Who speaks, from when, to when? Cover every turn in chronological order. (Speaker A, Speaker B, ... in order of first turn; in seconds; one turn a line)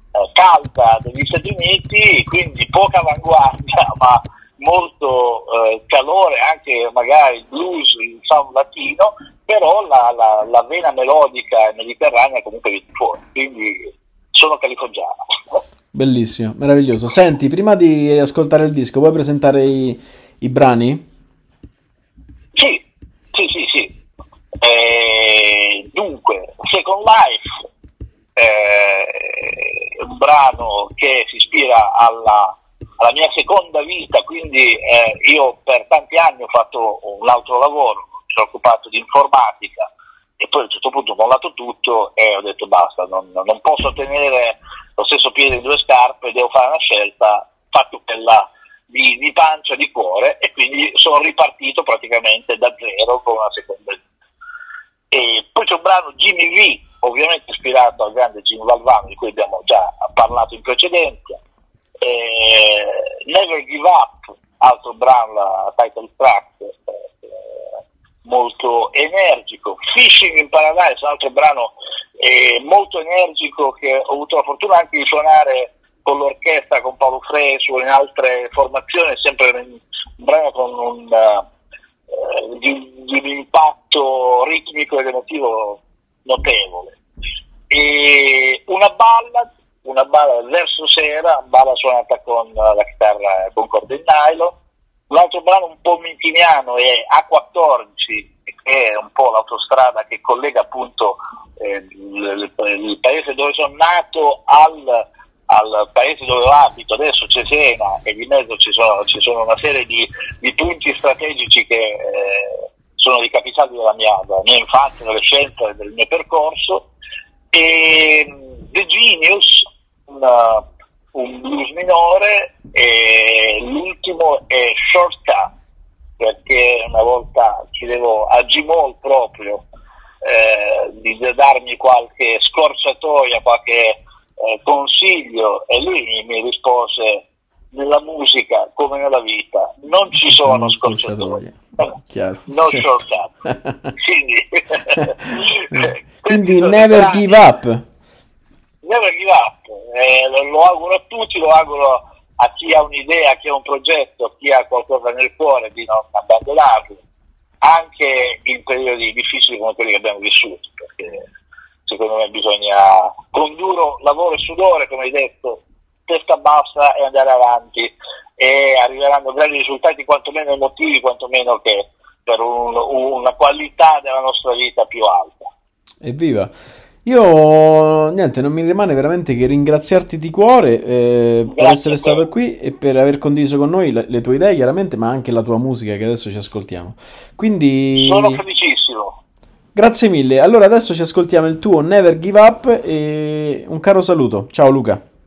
Speaker A: 0.3-15.6
Speaker B: 15.9-21.0
Speaker A: 22.6-22.8
Speaker A: 23.3-23.9
Speaker A: 24.6-27.5
Speaker A: 28.4-54.0
Speaker A: 55.1-61.4
Speaker A: 62.0-67.5
Speaker A: 68.2-81.4
Speaker A: 82.1-86.9
Speaker A: 87.7-94.6
Speaker A: 95.1-116.9
Speaker A: 117.5-125.5
Speaker A: 126.2-129.6
Speaker A: 130.2-141.4
Speaker B: 140.2-142.9
Speaker A: 142.5-143.3
Speaker B: 143.5-143.9
Speaker A: 143.9-147.3
Speaker B: 145.7-147.9
Speaker A: 148.8-157.0
Speaker A: 157.6-161.3
Speaker A: 161.8-175.5
Speaker B: 176.0-176.5
Speaker B: 177.0-188.4
Speaker A: 181.5-182.2
Speaker A: 188.0-189.2
Speaker B: 189.7-195.0